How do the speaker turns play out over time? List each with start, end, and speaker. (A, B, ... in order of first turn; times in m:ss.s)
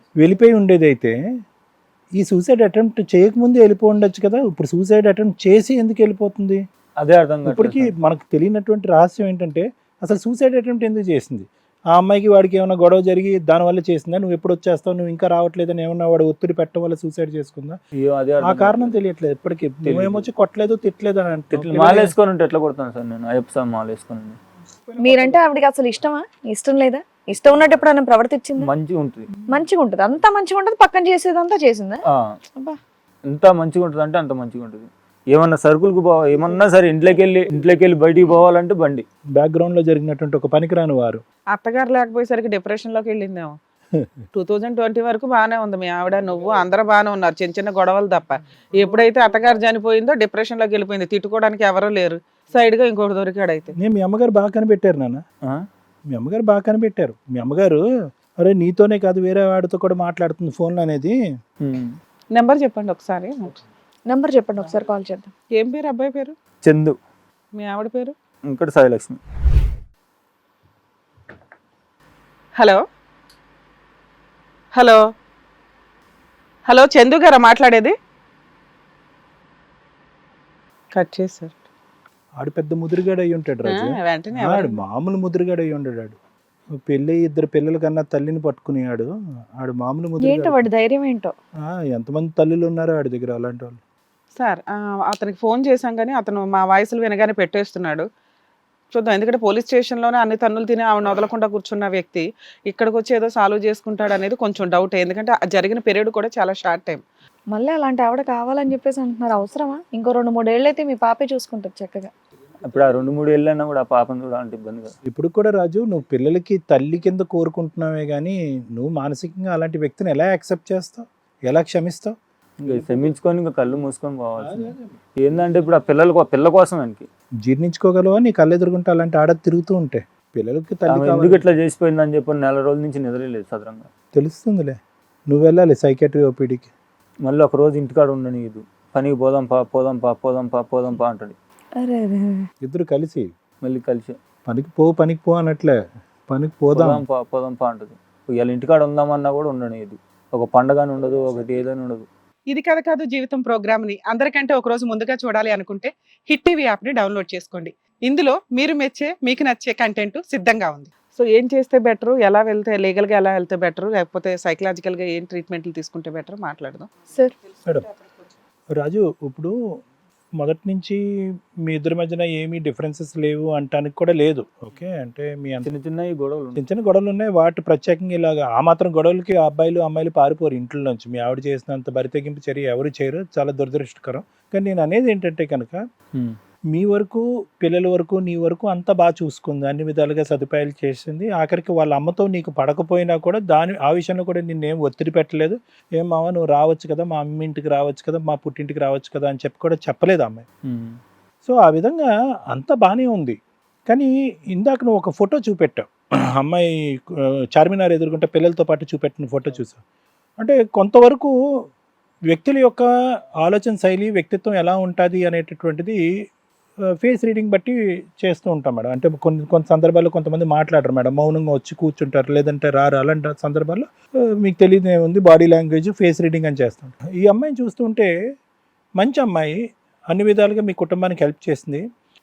0:00.2-0:01.1 A
0:02.2-0:06.6 A
0:07.0-0:07.9 B
0:07.4-0:17.8 A
0:18.0-0:19.0 B
0:18.4-0:22.1 A
0:19.8-0:20.2 B
0:21.6-0:24.4 B
0:24.9-0:25.4 A
0:25.0-0:28.7 C
0:28.6-0:29.3 B
0:29.5-0:32.0 C
0:33.3-0:39.0 B
0:39.3-0:41.2 A
0:41.5-0:43.5 D
0:44.3-0:53.7 D
0:53.8-0:55.2 A
0:56.1-0:57.8 A
0:58.4-1:01.1 A
1:01.6-1:01.9 B
1:02.3-1:03.6 D
1:04.1-1:05.3 C
1:05.5-1:06.3 D
1:06.6-1:06.9 B
1:07.6-1:08.1 D
1:08.5-1:09.6 B
1:16.7-1:17.9 D
1:20.9-1:21.5 D
1:22.4-1:26.2 A
1:23.7-1:24.8 D
1:26.8-1:29.1 A
1:29.6-1:30.6 A
1:30.2-1:31.3 C
1:31.6-1:33.8 A
1:34.4-1:38.0 D
1:38.9-1:47.0 D
1:47.5-1:52.1 C
1:52.6-1:54.9 B
1:55.0-2:02.1 A
2:02.6-2:07.1 B
2:04.5-2:04.8 A
2:07.4-2:11.4 A
2:10.9-2:13.9 B
2:14.1-2:14.8 A
2:15.3-2:16.7 A
2:17.2-2:21.4 B
2:21.8-2:22.4 C
2:22.6-2:23.3 A
2:23.6-2:24.1 B
2:24.4-2:25.8 A
2:26.3-2:27.0 A
2:26.7-2:32.0 B
2:32.5-2:46.9 D
2:48.7-2:49.5 A
2:50.4-2:51.0 A
2:51.6-2:55.7 A
2:55.6-2:56.6 B
2:56.6-3:05.8 A
3:06.7-3:20.4 A
3:20.7-3:21.0 B
3:21.4-3:23.4 A
3:23.9-3:29.8 A
3:30.4-3:31.3 A
3:32.3-3:32.8 A
3:33.4-3:36.0 A
3:36.9-3:43.9 A
3:44.4-3:48.1 A
3:49.0-3:49.6 A
3:50.1-3:51.8 A